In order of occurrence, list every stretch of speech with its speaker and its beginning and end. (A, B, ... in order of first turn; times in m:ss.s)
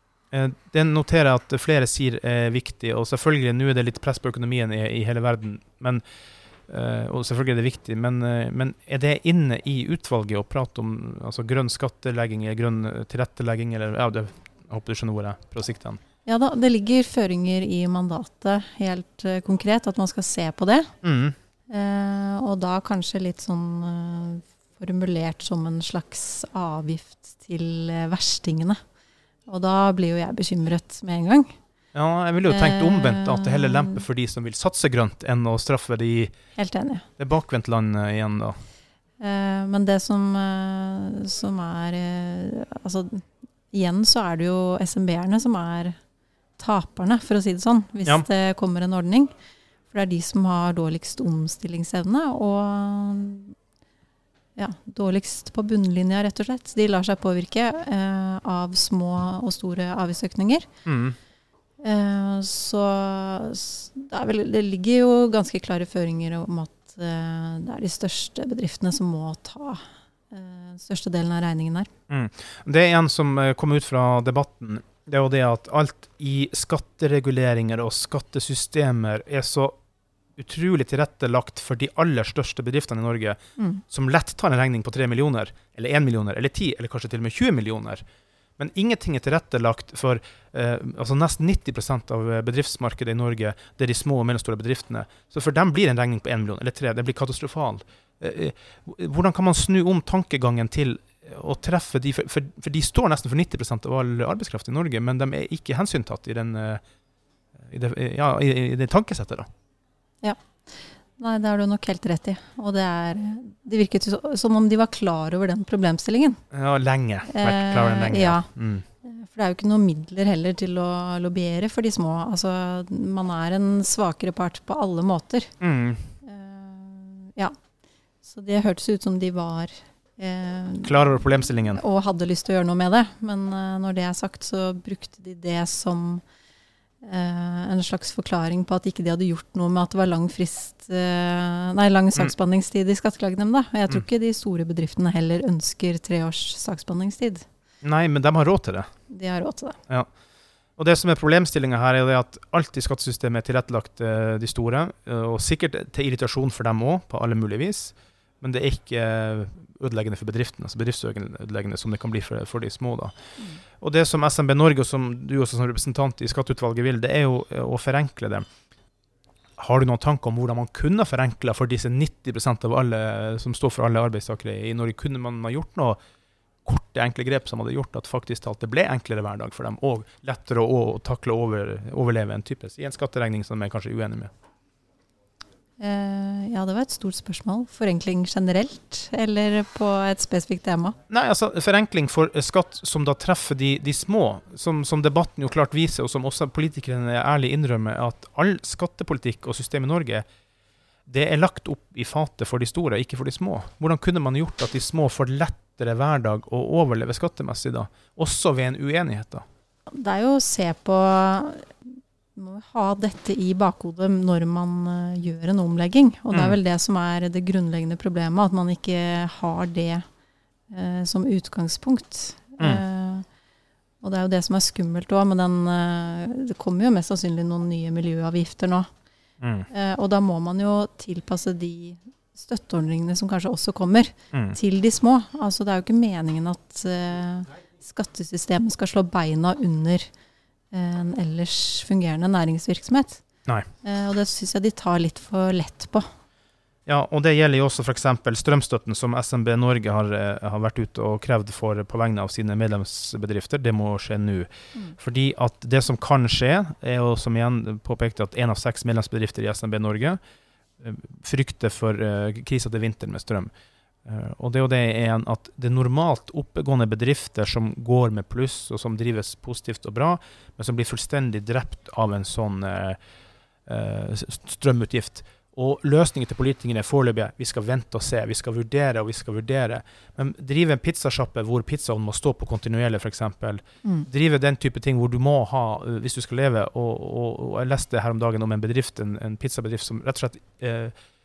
0:00.3-0:06.0 A
0:06.7-0:16.0 A
0:16.2-0:20.9 B
0:21.0-0:21.4 A
0:21.7-0:28.8 B
0:29.5-0:31.6 B
0:31.9-0:36.3 A
0:32.5-0:34.0 B
0:36.6-0:37.1 B
0:37.2-0:38.6 A
0:39.2-0:46.0 B
0:46.6-0:49.3 B
0:49.9-0:53.6 B
0:54.6-1:00.7 B
1:00.8-1:01.2 A
1:01.8-1:11.9 B
1:12.1-1:19.8 A
1:20.4-1:28.0 A
1:28.6-1:46.8 A
1:47.6-1:49.5 A
1:50.2-1:56.4 B
1:56.5-1:58.8 A
1:57.3-1:58.5 B
1:59.0-2:05.6 B
2:05.6-2:06.1 A
2:06.2-2:07.6 B
2:08.2-2:11.0 B
2:10.8-2:11.8 A
2:11.7-2:16.2 B
2:17.0-2:27.5 B
2:27.8-2:28.9 A
2:29.1-2:29.8 B
2:30.8-2:48.5 A
2:49.6-2:56.0 A
2:56.6-3:04.3 A
3:05.8-3:11.0 B
3:11.1-3:20.2 A
3:21.1-3:29.4 A
3:29.9-3:40.1 B
3:40.7-3:43.3 B
3:44.0-3:48.9 B
3:49.4-3:49.7 A
3:49.7-4:00.1 B
4:00.7-4:03.2 B
4:03.8-4:06.1 B
4:06.9-4:20.2 A
4:20.8-4:23.5 A
4:24.0-4:33.0 A
4:33.7-4:50.9 A